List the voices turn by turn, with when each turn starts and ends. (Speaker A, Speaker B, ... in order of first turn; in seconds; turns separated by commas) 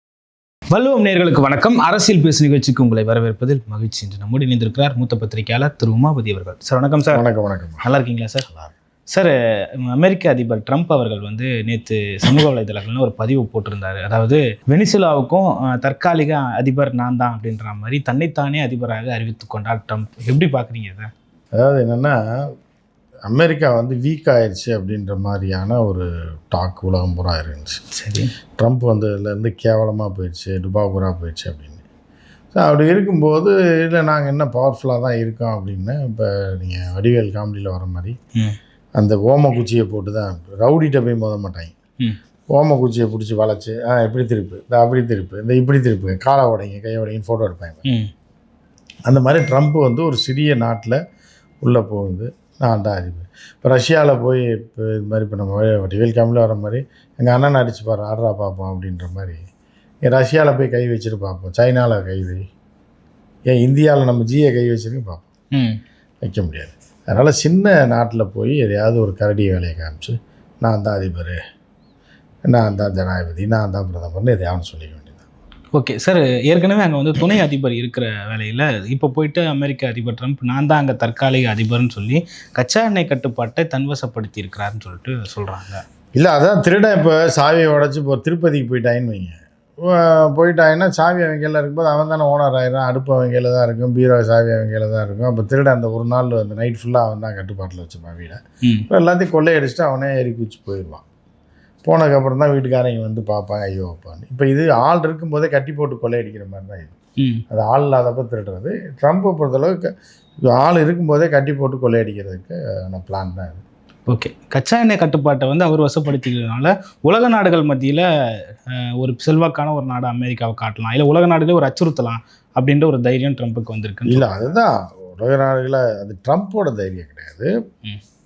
Speaker A: 0.7-7.2, Speaker B: 7.1-7.8, Speaker A: 7.8-8.5, Speaker A: 9.1-21.1, Speaker B: 21.6-22.2, Speaker B: 23.2-27.8, Speaker A: 27.9-28.3, Speaker B: 28.6-31.8, Speaker B: 32.5-38.1, Speaker B: 39.0-41.7, Speaker B: 42.5-47.8, Speaker A: 47.8-48.1, Speaker B: 49.1-51.0, Speaker B: 51.6-59.4, Speaker B: 60.0-62.4, Speaker B: 63.5-65.2, Speaker A: 65.5-65.8, Speaker B: 66.2-71.4, Speaker B: 72.5-75.2, Speaker A: 75.7-85.8, Speaker B: 86.1-101.0, Speaker B: 101.8-106.9, Speaker B: 107.5-109.9, Speaker B: 110.4-113.6, Speaker A: 114.1-124.3, Speaker B: 124.0-127.5